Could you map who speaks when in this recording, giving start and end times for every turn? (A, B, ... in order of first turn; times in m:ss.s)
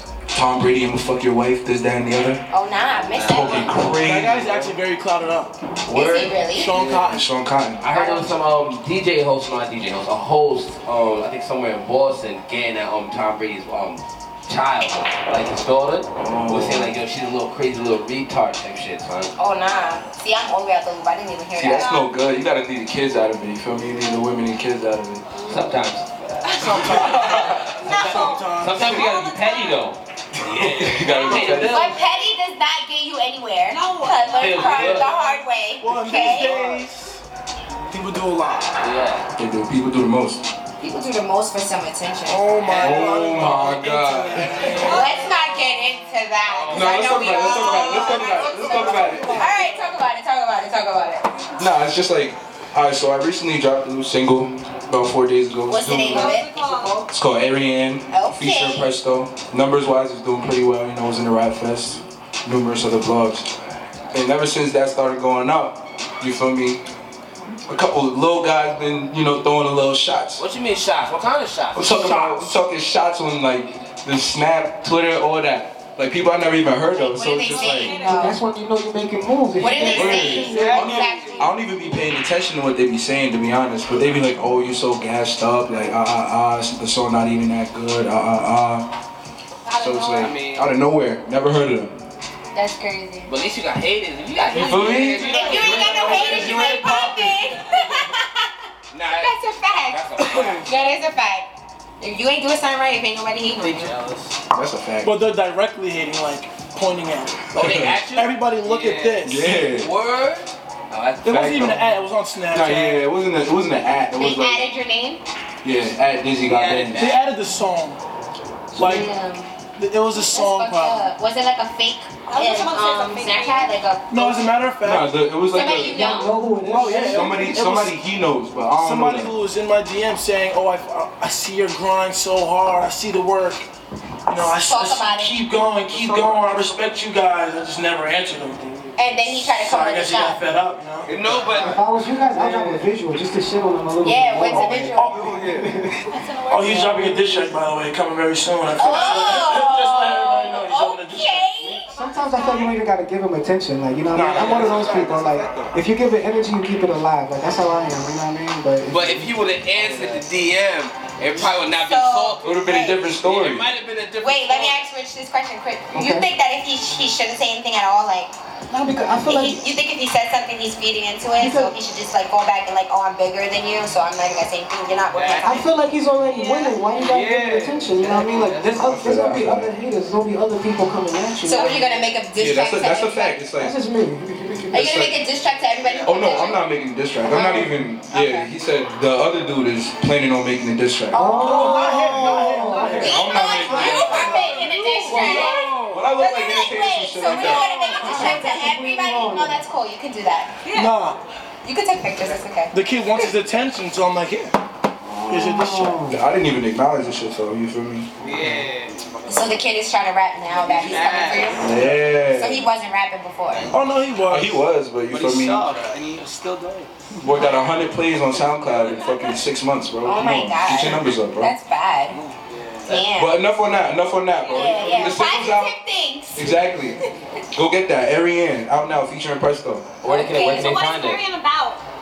0:00.3-0:02.4 A
0:02.5-0:04.0 B
0:03.1-0:03.7 C
0:03.3-0:04.7 A
0:03.8-0:05.5 D
0:05.9-0:07.1 C
0:05.9-0:06.8 B
0:06.5-0:07.3 D
0:07.1-0:07.8 A
0:07.8-0:19.3 C
0:07.9-0:08.4 B
0:16.2-0:16.9 A
0:19.4-0:21.9 B
0:21.6-0:25.3 A
0:21.6-0:22.1 E
0:25.4-0:25.6 B
0:25.5-0:32.0 C
0:26.5-0:27.4 E
0:26.6-0:29.0 D
0:27.8-0:28.4 B
0:28.0-0:29.8 E
0:30.6-0:31.9 A
0:31.0-0:31.7 E
0:31.6-0:36.6 B
0:33.7-0:35.4 E
0:34.4-0:35.1 C
0:35.8-0:37.2 D
0:37.9-0:38.8 D
0:38.8-0:39.3 C
0:39.4-0:40.4 A
0:40.8-0:42.5 B
0:42.3-0:45.1 D
0:42.6-0:43.1 C
0:42.8-0:44.8 A
0:44.7-0:51.3 B
0:44.7-0:45.1 E
0:46.5-0:46.9 C
0:46.7-0:49.5 A
0:48.4-0:49.6 D
0:51.6-0:56.4 A
0:55.7-0:56.7 B
0:56.0-0:57.1 E
0:57.1-1:03.5 A
0:58.1-0:58.9 B
1:04.1-1:06.8 A
1:07.7-1:10.4 A
1:10.4-1:12.0 C
1:11.7-1:18.0 A
1:11.9-1:12.5 D
1:17.0-1:18.4 B
1:17.4-1:18.4 E
1:18.0-1:20.7 F
1:19.6-1:21.6 B
1:19.7-1:21.4 G
1:19.8-1:28.9 A
1:29.8-1:32.0 A
1:30.0-1:30.7 C
1:32.5-1:33.3 B
1:33.3-1:37.0 C
1:34.5-1:37.3 A
1:34.9-1:38.5 B
1:35.6-1:36.0 G
1:38.9-1:40.7 C
1:39.2-1:43.9 B
1:43.6-1:44.3 C
1:44.5-1:45.1 A
1:45.0-1:49.5 D
1:47.5-1:51.7 C
1:47.6-1:48.1 A
1:49.2-1:49.9 A
1:51.2-1:53.0 D
1:51.3-1:51.9 A
1:52.5-1:54.7 A
1:54.1-1:55.2 B
1:55.6-1:57.2 A
1:56.4-1:57.2 C
1:57.0-1:58.0 D
1:58.7-1:59.1 D
1:58.8-1:59.5 B
1:59.8-2:01.1 D
2:00.2-2:04.5 B
2:02.3-2:03.8 E
2:04.1-2:05.2 D
2:04.8-2:06.2 A
2:05.5-2:06.4 B
2:05.7-2:07.5 F
2:06.7-2:08.0 D
2:07.0-2:09.3 A
2:08.7-2:13.7 D
2:14.3-2:21.7 D
2:14.4-2:15.5 B
2:19.0-2:20.4 B
2:21.1-2:21.8 C
2:21.6-2:26.0 F
2:24.0-2:25.4 B
2:24.5-2:25.7 A
2:26.1-2:27.1 E
2:26.5-2:31.8 D
2:26.6-2:27.5 F
2:28.8-2:31.8 B
2:31.9-2:39.2 F
2:32.1-2:32.7 E
2:34.1-2:35.6 A
2:34.2-2:34.9 C
2:38.9-2:44.8 C
2:41.5-2:43.1 B
2:42.4-2:43.7 A
2:44.2-2:48.3 B
2:45.9-2:46.3 F
2:48.7-2:49.6 F
2:49.3-2:55.6 B
2:51.4-2:51.7 F
2:55.1-2:55.6 C
2:55.4-3:01.8 F
2:56.3-2:56.8 E
2:57.0-2:58.9 C
2:58.8-2:59.7 A
3:01.4-3:03.4 B
3:02.4-3:03.8 A
3:03.6-3:04.7 F
3:04.7-3:06.6 B
3:04.7-3:05.2 A
3:05.8-3:06.1 C
3:06.0-3:11.4 A
3:07.3-3:08.5 B
3:11.1-3:13.2 F
3:11.2-3:20.5 B
3:11.4-3:16.1 D
3:13.0-3:14.2 A
3:15.0-3:17.7 A
3:17.7-3:18.4 D
3:17.8-3:19.6 F
3:20.6-3:21.0 E
3:20.7-3:21.2 D
3:21.6-3:23.3 B
3:22.7-3:24.6 D
3:25.3-3:26.0 D
3:25.3-3:26.2 F
3:26.0-3:28.1 A
3:28.2-3:29.4 G
3:29.3-3:33.7 B
3:30.6-3:31.7 C
3:30.9-3:31.5 G
3:31.6-3:32.7 A
3:33.7-3:34.6 D
3:34.3-3:35.7 A
3:35.1-3:36.9 G
3:37.2-3:41.5 A
3:37.3-3:37.9 E
3:40.0-3:42.2 B
3:42.2-3:42.9 G
3:42.9-3:43.4 B
3:43.1-3:45.8 A
3:44.4-3:45.1 E
3:44.5-3:46.6 B
3:46.3-3:47.0 A
3:47.5-3:49.9 A
3:50.0-3:51.2 C
3:50.0-3:50.9 B
3:50.4-3:51.8 E